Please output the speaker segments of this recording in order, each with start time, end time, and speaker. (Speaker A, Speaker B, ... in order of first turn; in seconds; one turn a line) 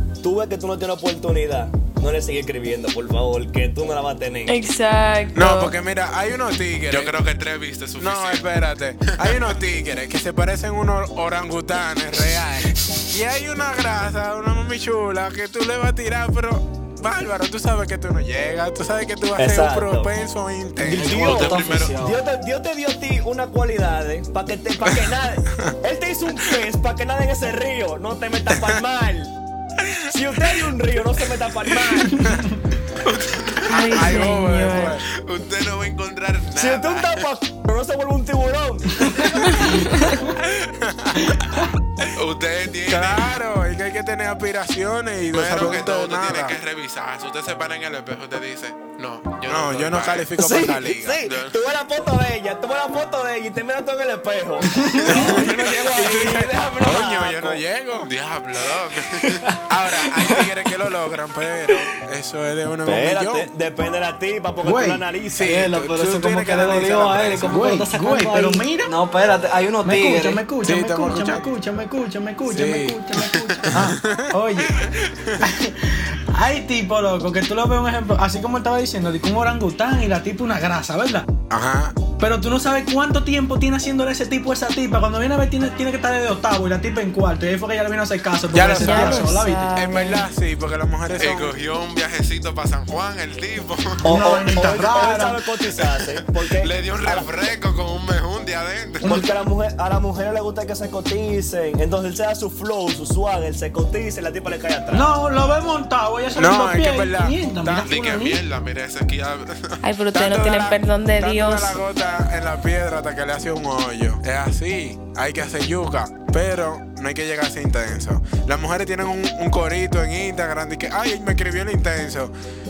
Speaker A: 0.2-4.6
Speaker B: 4.5-5.8
Speaker C: 5.3-7.1
Speaker D: 6.9-8.5
Speaker C: 8.0-21.2
Speaker D: 9.1-9.6
Speaker A: 19.4-20.1
Speaker A: 20.8-29.3
Speaker E: 20.9-22.2
Speaker D: 21.1-22.0
Speaker C: 28.5-28.8
Speaker A: 30.1-32.4
Speaker F: 32.2-32.5
Speaker D: 33.0-34.3
Speaker B: 33.7-35.0
Speaker C: 33.7-35.0
Speaker D: 35.1-37.3
Speaker A: 36.6-39.8
Speaker B: 39.5-40.1
Speaker C: 39.6-42.1
Speaker D: 42.1-43.4
Speaker C: 42.9-46.6
Speaker D: 45.3-50.3
Speaker C: 49.5-51.2
Speaker A: 50.4-57.6
Speaker D: 51.2-51.6
Speaker E: 55.0-55.4
Speaker C: 55.1-58.1
Speaker D: 58.0-59.5
Speaker E: 59.2-60.5
Speaker C: 59.7-63.5
Speaker A: 62.9-65.7
Speaker F: 64.6-65.0
Speaker C: 65.3-67.6
Speaker E: 65.4-70.5
Speaker F: 67.5-68.9
Speaker F: 69.8-74.8
Speaker C: 70.6-71.5
Speaker C: 72.5-75.4
Speaker D: 73.4-73.7
Speaker F: 75.4-81.3
Speaker C: 81.5-82.0
Speaker F: 82.2-89.8
Speaker C: 88.5-91.6
Speaker B: 88.8-90.3
Speaker D: 91.2-94.0
Speaker F: 94.0-95.4
Speaker A: 94.0-97.5
Speaker D: 96.6-99.1
Speaker F: 99.0-99.4
Speaker A: 99.0-105.1
Speaker F: 104.9-108.4
Speaker C: 106.4-107.9
Speaker D: 107.8-109.8
Speaker B: 109.8-111.8
Speaker C: 110.1-122.3